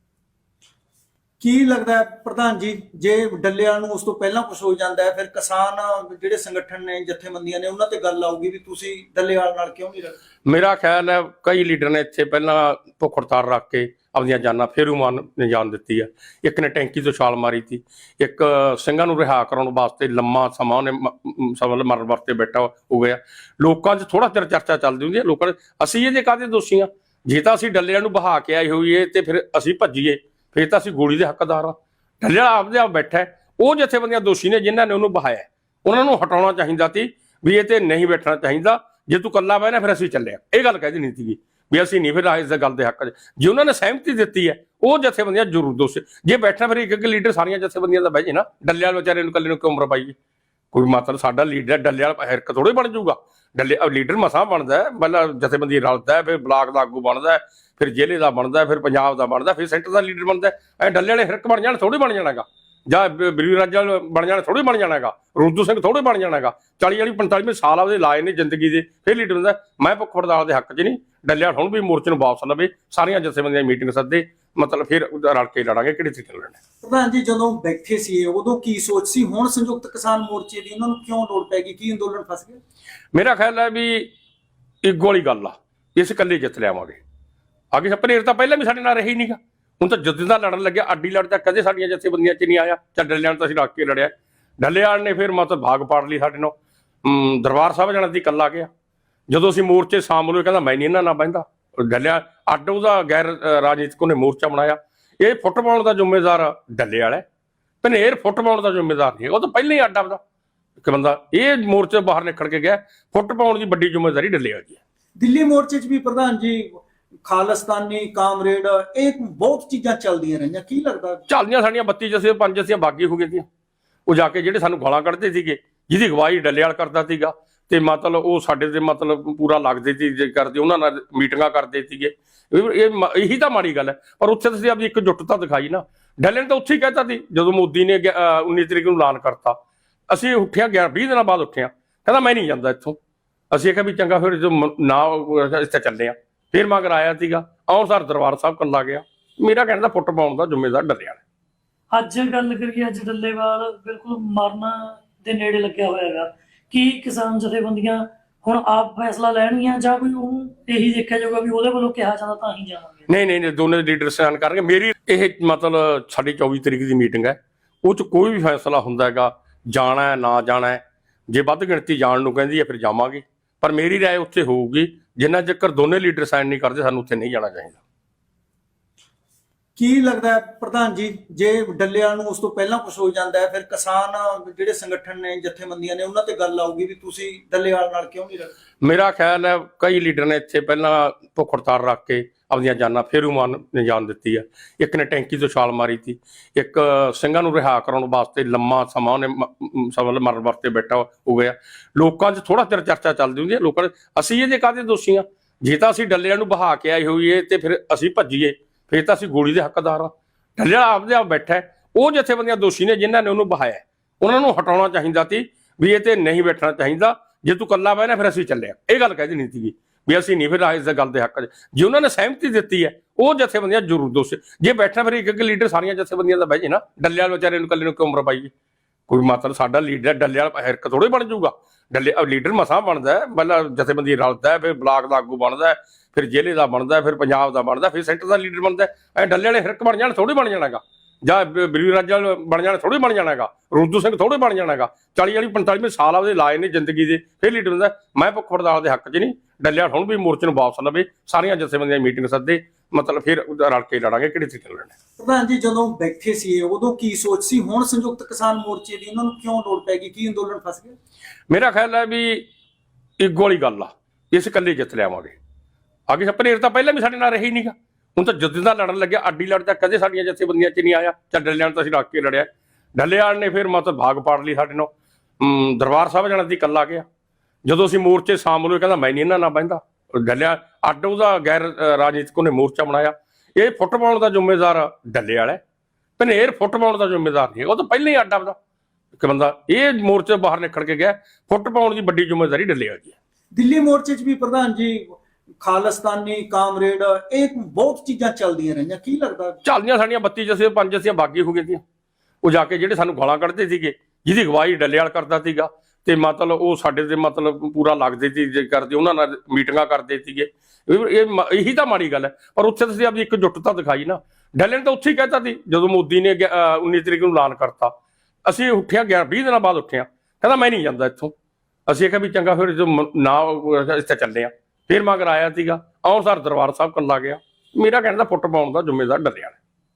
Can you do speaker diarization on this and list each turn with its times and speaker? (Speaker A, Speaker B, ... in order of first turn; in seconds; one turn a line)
Speaker A: 1.4-10.2
Speaker B: 10.5-50.1
Speaker B: 50.7-76.6
Speaker A: 76.8-82.6
Speaker B: 83.1-84.1
Speaker B: 84.8-87.0
Speaker B: 87.7-98.7
Speaker B: 99.3-107.2
Speaker B: 107.8-110.2
Speaker B: 110.8-114.8
Speaker A: 115.2-121.2
Speaker B: 121.3-123.5
Speaker B: 124.1-139.6
Speaker B: 140.1-143.0
Speaker B: 143.5-151.2
Speaker C: 151.9-163.1
Speaker B: 163.1-177.8
Speaker A: 179.8-188.5
Speaker B: 188.8-228.5
Speaker B: 229.1-254.9
Speaker A: 255.2-261.0
Speaker B: 261.5-262.5
Speaker B: 263.2-265.4
Speaker B: 266.1-277.1
Speaker B: 277.6-285.6
Speaker B: 286.2-288.6
Speaker B: 289.2-293.1
Speaker A: 293.5-299.6
Speaker B: 299.6-301.8
Speaker B: 302.4-317.9
Speaker B: 318.5-321.3
Speaker B: 321.9-329.6